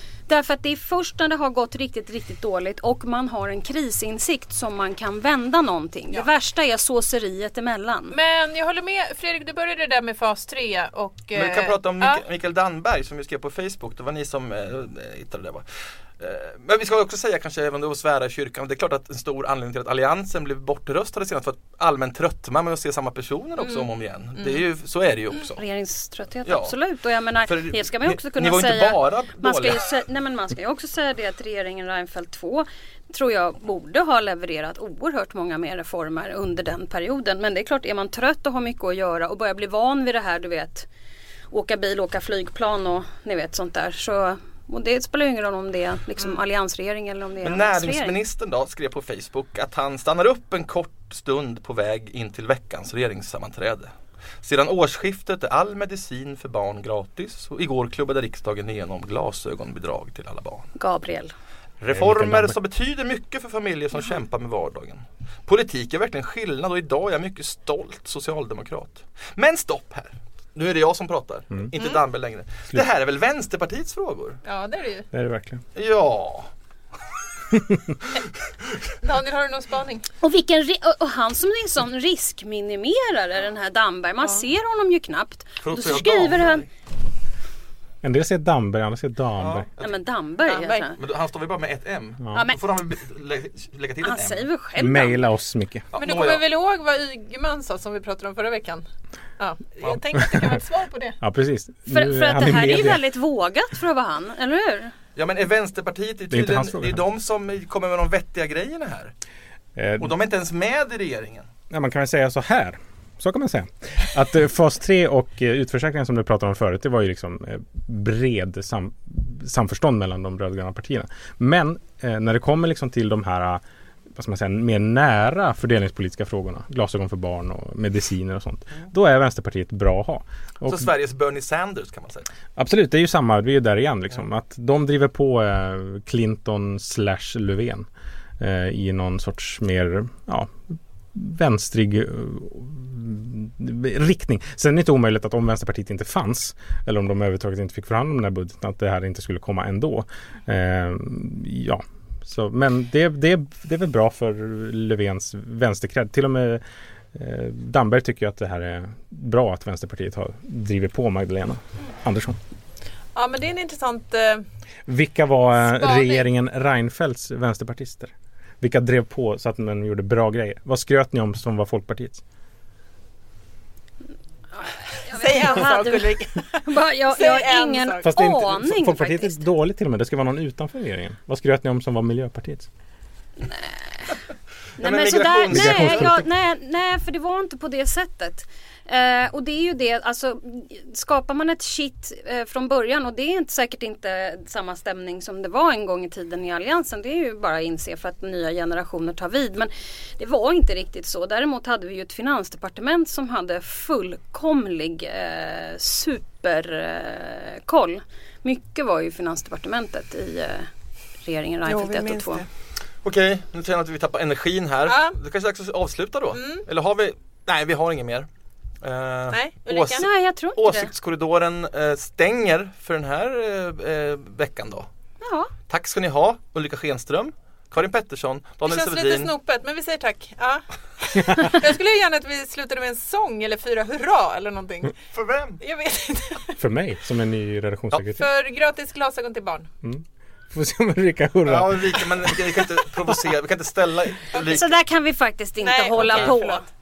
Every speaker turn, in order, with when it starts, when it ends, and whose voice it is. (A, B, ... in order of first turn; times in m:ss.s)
0:00.3-0:08.2 A
0:08.1-0:12.2 B
0:11.4-0:15.6 C
0:16.2-0:25.6 C
0:23.6-0:23.9 B
0:25.6-0:40.9 A
0:26.5-0:26.7 C
0:27.5-0:29.9 C
0:41.5-0:48.2 A
0:47.4-0:53.9 C
0:54.4-1:00.7 C
1:00.8-1:01.3 A
1:01.8-1:14.4 C
1:01.9-1:02.6 D
1:14.4-1:15.1 B
1:15.1-1:15.6 D
1:15.8-1:16.5 C
1:17.5-1:18.0 D
1:19.0-1:20.0 B
1:20.2-1:26.6 A
1:25.6-1:26.7 C
1:28.0-1:29.7 D
1:29.4-1:29.9 C
1:29.8-1:31.0 A
1:30.5-1:30.9 B
1:31.0-1:34.5 C
1:32.3-1:32.6 A
1:34.0-1:35.2 A
1:34.8-1:35.9 D
1:35.9-1:36.4 C
1:36.0-1:38.8 B
1:39.4-1:41.2 B
1:41.2-1:43.0 D
1:41.9-1:44.9 A
1:45.2-1:49.1 C
1:46.3-1:47.0 D
1:49.8-1:50.1 D
1:50.0-1:51.5 C
1:51.7-2:03.6 D
2:04.1-2:10.9 D
2:10.6-2:12.3 C
2:12.6-2:17.9 D
2:18.4-2:20.6 D
2:21.1-2:36.6 D
2:37.1-2:42.4 D
2:43.2-2:44.4 B
2:44.9-2:52.2 D
2:45.6-2:46.3 B
2:54.6-2:59.4 A
2:55.1-2:58.1 B
2:58.0-3:02.7 D
3:03.4-3:04.2 A
3:04.8-3:06.2 C
3:04.8-3:30.7 A
3:05.5-3:06.3 D
3:31.2-3:32.4 A
3:31.7-3:32.5 B
3:33.0-3:38.3 C
3:34.9-3:35.2 B
3:36.3-3:36.7 B
3:38.8-3:44.9 C
3:39.3-3:40.1 B
3:40.0-3:40.9 A
3:45.2-3:45.5 A
3:45.7-3:49.3 C
3:48.6-3:55.0 B
3:51.2-3:51.5 D
3:55.1-3:55.6 C
3:55.6-3:56.6 B
3:56.6-3:58.3 D
3:58.2-3:59.7 B
3:59.8-4:03.2 D
4:01.5-4:04.7 C
4:04.3-4:04.6 B
4:04.5-4:06.6 A
4:05.6-4:06.6 B
4:06.0-4:06.4 C